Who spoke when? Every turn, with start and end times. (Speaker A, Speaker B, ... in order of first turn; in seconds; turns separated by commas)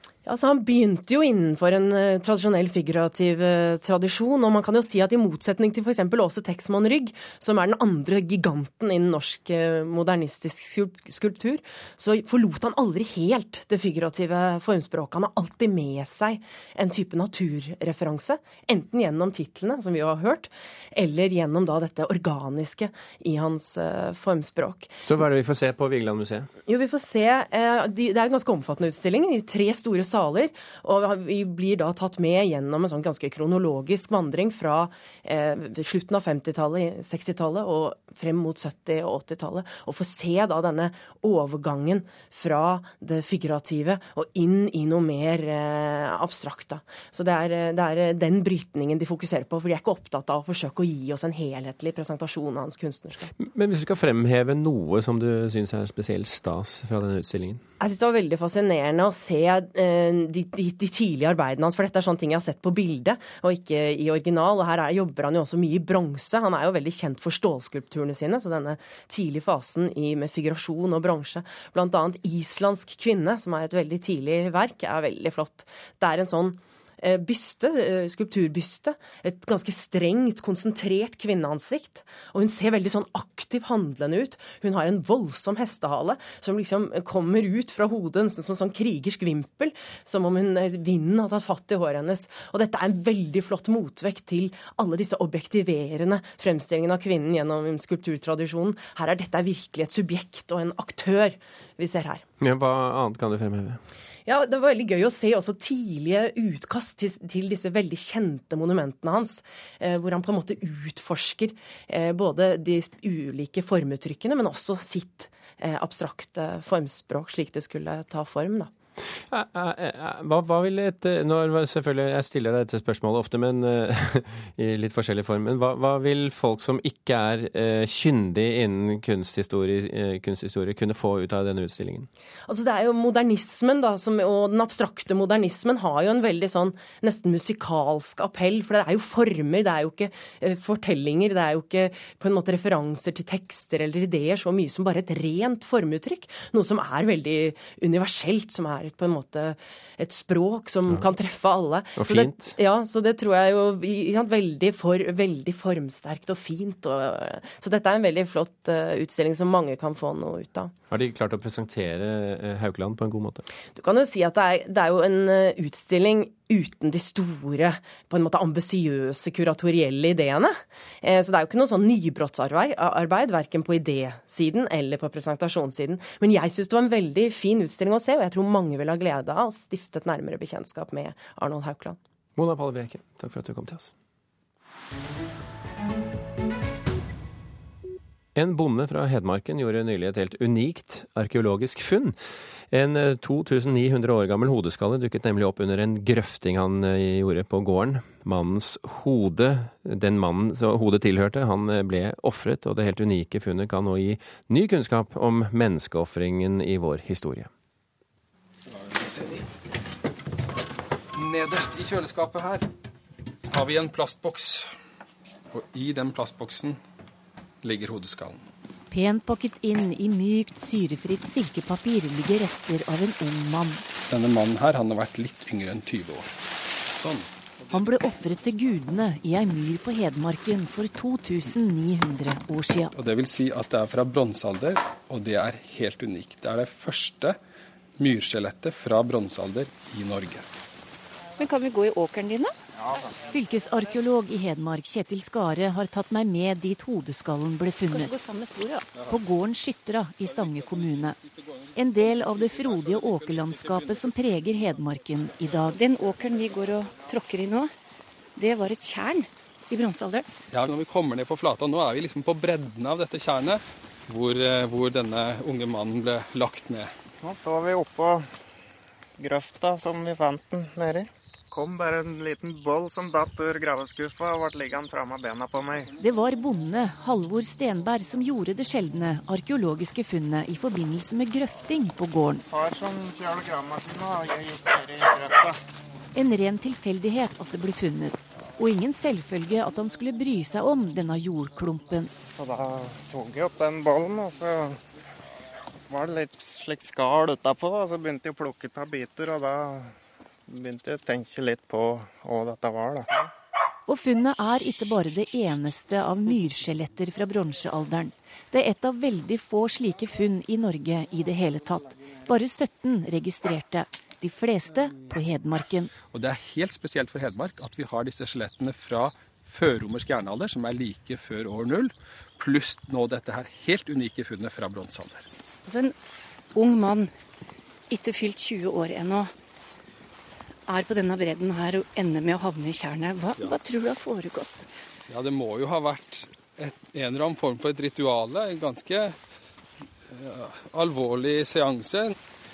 Speaker A: 0.2-25.0, Speaker B: 25.0-26.5, Speaker A: 26.7-53.3, Speaker B: 53.4-57.6, Speaker A: 57.8-102.2, Speaker B: 102.4-103.8, Speaker A: 104.2-118.7, Speaker B: 119.3-132.1, Speaker A: 132.5-160.7, Speaker B: 151.9-152.6, Speaker B: 160.9-163.4, Speaker A: 163.7-182.0, Speaker B: 182.4-183.9, Speaker B: 188.3-192.2, Speaker B: 192.7-207.5, Speaker C: 208.7-209.4, Speaker C: 211.1-212.7, Speaker C: 213.5-214.7, Speaker C: 215.5-216.8, Speaker C: 217.6-218.4, Speaker D: 218.9-223.8, Speaker C: 224.1-226.4, Speaker C: 226.9-227.9, Speaker D: 227.7-232.9, Speaker C: 232.9-237.4, Speaker C: 238.0-240.4, Speaker E: 241.4-242.5, Speaker F: 242.8-243.1, Speaker D: 243.3-248.1, Speaker E: 247.9-248.9, Speaker C: 248.9-249.4, Speaker D: 249.1-251.2, Speaker C: 250.2-254.2, Speaker D: 251.8-255.8, Speaker E: 255.7-257.7, Speaker E: 258.4-260.3, Speaker C: 260.5-266.9, Speaker F: 267.2-268.3, Speaker F: 269.2-275.9, Speaker D: 276.0-282.4, Speaker F: 282.5-285.6, Speaker D: 286.1-292.1, Speaker F: 292.3-294.8, Speaker F: 295.9-299.9, Speaker F: 300.5-303.3, Speaker D: 303.9-315.9, Speaker C: 316.1-325.3, Speaker E: 325.6-325.9, Speaker E: 326.5-327.1, Speaker E: 327.9-329.3, Speaker E: 330.7-334.7, Speaker C: 335.1-339.2, Speaker C: 340.1-342.1